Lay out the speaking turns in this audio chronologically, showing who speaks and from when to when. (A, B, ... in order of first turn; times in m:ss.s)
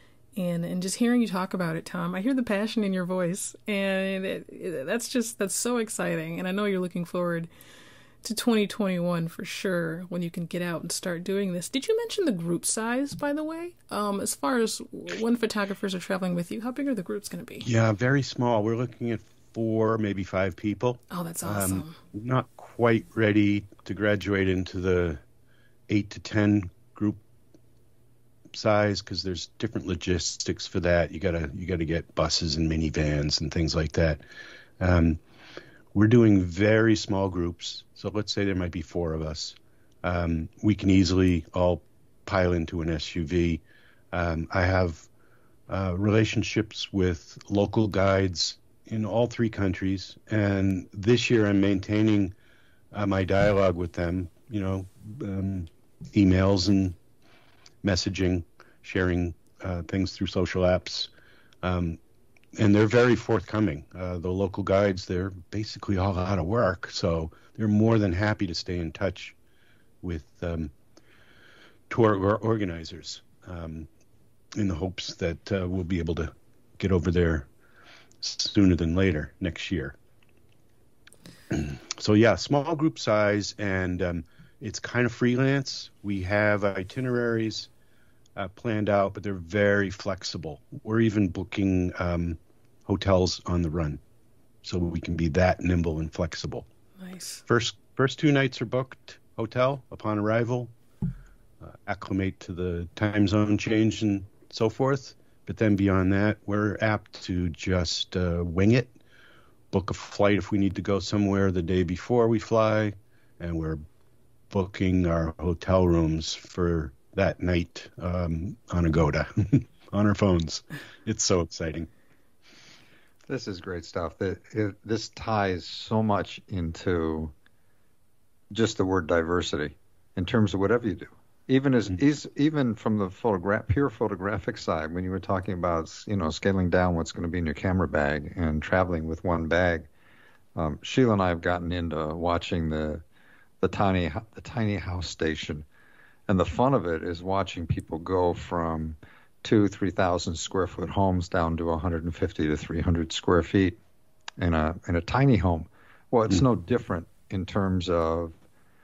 0:00.4-0:07.5 A
0:08.2-0:17.7 A
0:17.6-0:25.2 B
0:21.1-0:22.0 A
0:25.9-0:27.2 B
0:28.5-0:34.2 B
0:34.8-0:35.2 B
0:35.9-0:45.1 B
0:45.7-0:52.3 B
0:52.9-0:57.0 B
0:57.8-1:01.1 B
1:01.6-1:02.0 B
1:02.6-1:09.4 B
1:10.0-1:10.7 B
1:11.9-1:13.9 B
1:14.6-1:17.5 B
1:18.2-1:20.0 B
1:21.5-1:27.7 B
1:28.4-1:34.0 B
1:34.6-1:36.7 B
1:37.0-1:37.4 A
1:37.5-1:40.7 B
1:41.6-1:49.0 B
1:49.7-1:53.8 B
1:54.5-2:01.9 B
2:03.3-2:07.3 C
2:08.5-2:19.9 C
2:20.6-2:23.0 C
2:23.6-2:25.6 C
2:26.3-2:33.8 C
2:34.4-2:38.4 C